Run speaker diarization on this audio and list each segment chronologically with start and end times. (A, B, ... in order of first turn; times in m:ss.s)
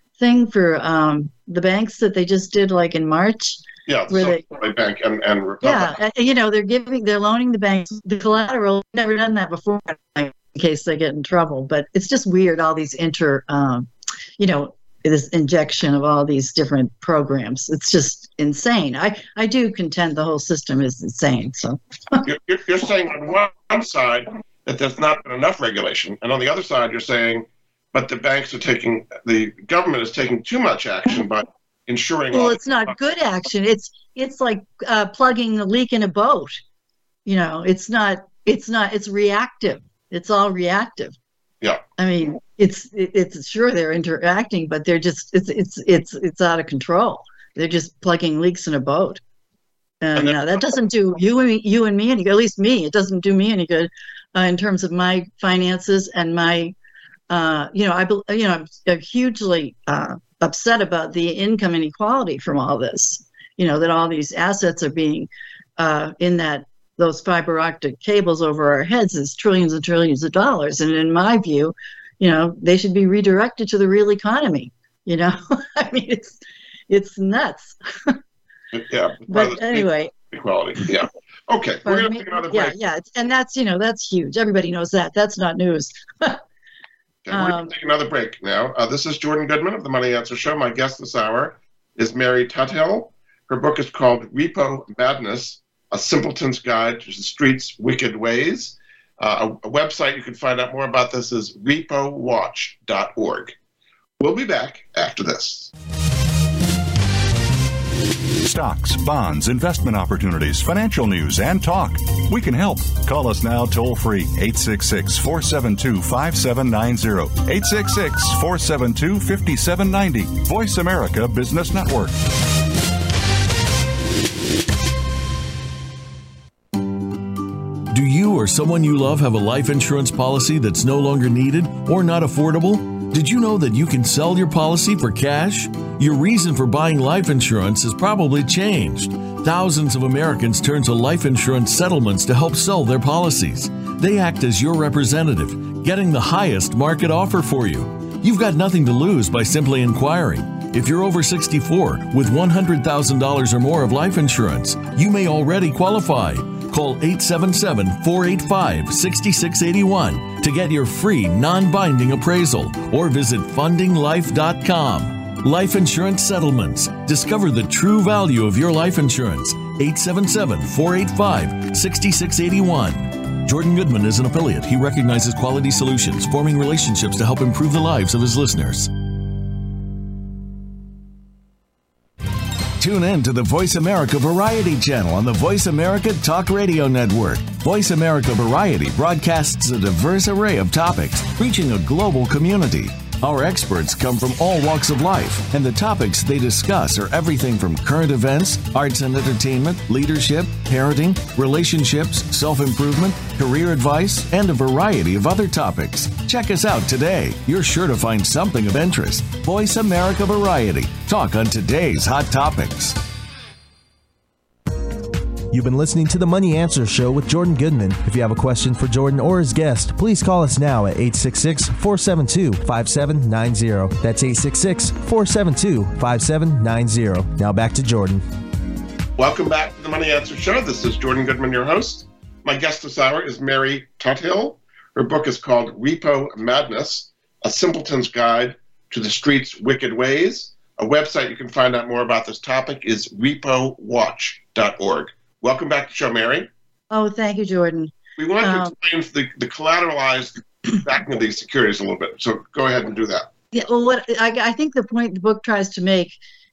0:00.2-0:04.4 A
0:03.9-0:06.0 B
0:05.6-0:22.2 A
0:22.2-0:32.6 B
0:32.3-0:36.6 A
0:37.2-0:41.1 A
0:42.0-0:49.2 A
0:50.0-0:56.7 A
0:57.3-1:18.2 A
1:18.7-1:22.8 B
1:19.3-1:20.1 A
1:21.8-1:26.4 A
1:27.2-1:43.5 B
1:27.3-1:27.7 A
1:44.2-1:45.7 B
1:48.4-2:02.2 C
2:07.9-2:58.9 D
3:02.8-3:33.0 D
3:35.5-3:48.2 E
3:49.2-4:06.5 B
4:06.9-4:08.7 A
4:08.2-4:13.3 B
4:13.5-4:16.2 A